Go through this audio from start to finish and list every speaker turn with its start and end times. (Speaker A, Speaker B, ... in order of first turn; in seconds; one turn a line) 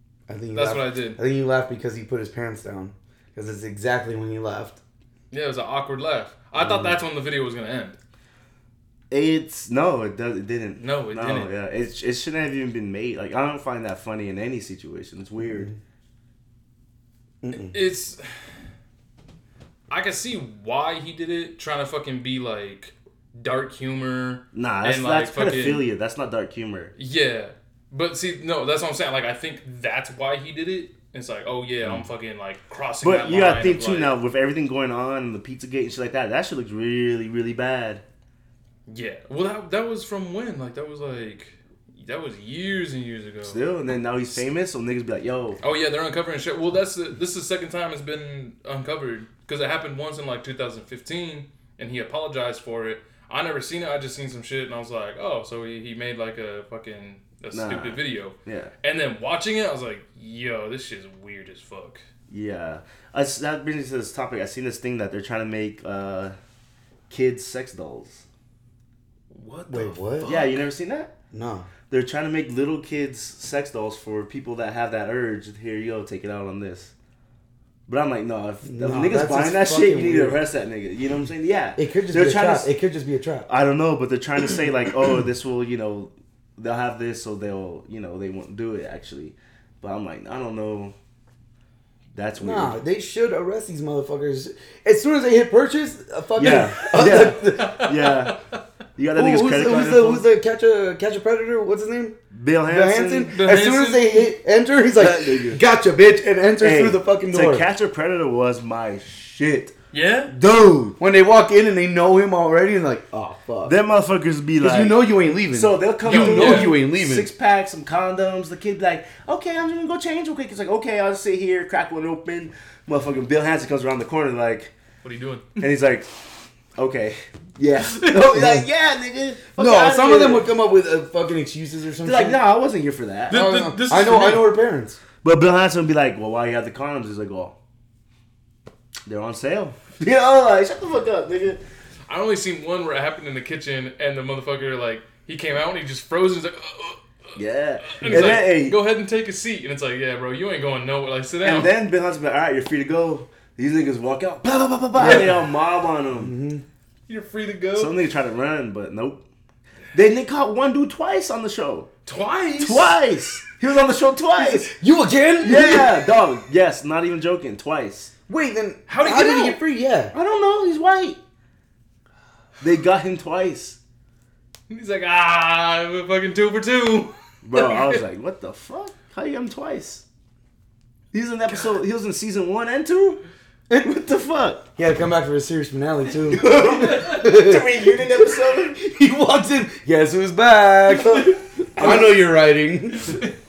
Speaker A: 0.3-4.8
Speaker B: 0.5-1.2
Speaker B: 5.3-8.0
Speaker C: 9.1-15.7
Speaker B: 10.8-11.5
Speaker A: 15.4-15.8
Speaker A: 17.4-17.8
Speaker B: 17.6-18.2
Speaker B: 19.9-25.8
Speaker C: 24.5-26.9
Speaker B: 27.0-34.1
Speaker C: 33.0-38.0
Speaker B: 38.9-43.6
Speaker C: 43.5-45.6
Speaker B: 45.6-62.0
Speaker C: 57.5-58.7
Speaker C: 62.3-66.4
Speaker C: 67.1-68.2
Speaker B: 69.3-70.6
Speaker A: 69.7-70.3
Speaker C: 70.3-71.1
Speaker A: 71.3-71.7
Speaker C: 71.9-76.9
Speaker C: 77.9-82.7
Speaker A: 78.7-80.4
Speaker A: 81.8-83.5
Speaker C: 83.5-91.0
Speaker C: 92.1-92.8
Speaker A: 92.4-97.9
Speaker C: 96.4-98.4
Speaker B: 96.9-98.6
Speaker C: 99.0-100.2
Speaker A: 99.1-107.7
Speaker C: 102.3-103.3
Speaker B: 103.3-104.3
Speaker C: 105.0-105.6
Speaker C: 106.6-109.7
Speaker B: 109.9-110.3
Speaker C: 110.3-111.0
Speaker A: 111.0-113.8
Speaker C: 113.7-124.7
Speaker A: 114.6-117.3
Speaker B: 116.0-116.8
Speaker B: 125.0-125.6
Speaker C: 125.6-126.1
Speaker C: 126.8-130.5
Speaker A: 128.3-128.7
Speaker A: 129.6-132.4
Speaker C: 132.0-133.4
Speaker B: 133.3-134.5
Speaker A: 133.3-135.0
Speaker C: 135.2-137.6
Speaker C: 139.1-141.6
Speaker B: 142.1-151.7
Speaker C: 147.4-148.8
Speaker A: 148.1-148.3
Speaker C: 151.4-156.3
Speaker A: 155.0-155.4
Speaker B: 155.0-155.4
Speaker A: 156.2-156.6
Speaker B: 157.1-158.0
Speaker C: 157.8-159.2
Speaker C: 159.9-161.9
Speaker B: 162.1-163.0
Speaker C: 162.6-164.7
Speaker A: 164.4-166.1
Speaker C: 165.4-168.1
Speaker A: 168.3-170.1
Speaker B: 168.9-169.6
Speaker C: 170.1-171.2
Speaker C: 172.6-173.8
Speaker B: 174.7-178.0
Speaker C: 177.4-180.0
Speaker C: 181.1-183.2
Speaker C: 183.8-184.7
Speaker A: 184.8-193.2
Speaker C: 186.3-188.8
Speaker C: 191.8-192.2